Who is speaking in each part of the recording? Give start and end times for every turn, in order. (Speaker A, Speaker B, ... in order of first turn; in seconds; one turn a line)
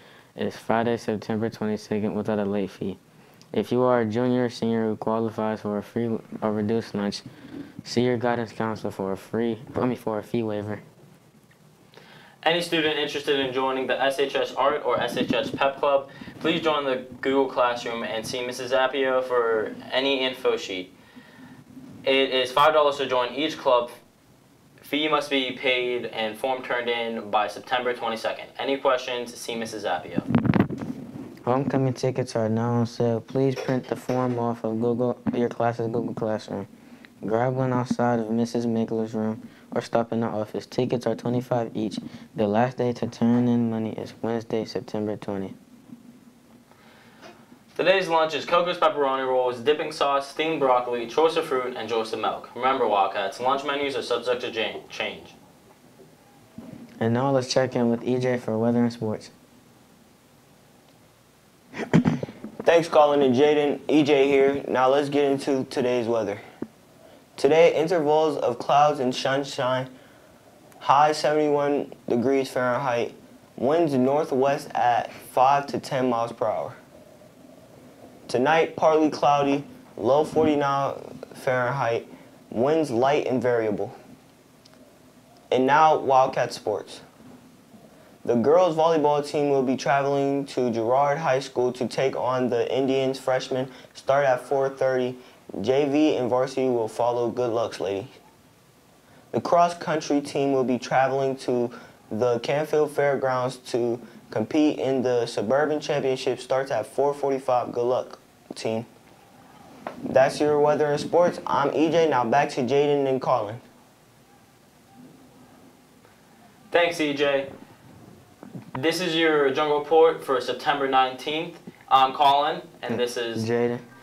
Speaker A: 0.3-3.0
Speaker A: 3.5-7.2
Speaker A: 7.8-10.8
Speaker B: 12.4-20.9
Speaker B: 22.0-23.9
Speaker B: 24.8-30.3
Speaker A: 31.4-36.7
Speaker A: 37.2-45.5
Speaker B: 47.7-55.4
Speaker A: 57.0-59.3
Speaker C: 62.6-66.4
Speaker C: 67.3-69.9
Speaker C: 70.8-76.8
Speaker C: 78.3-83.9
Speaker C: 85.5-87.0
Speaker C: 88.2-98.1
Speaker C: 99.3-108.9
Speaker C: 110.1-113.6
Speaker B: 116.7-117.5
Speaker B: 118.7-123.5
Speaker A: 122.9-123.8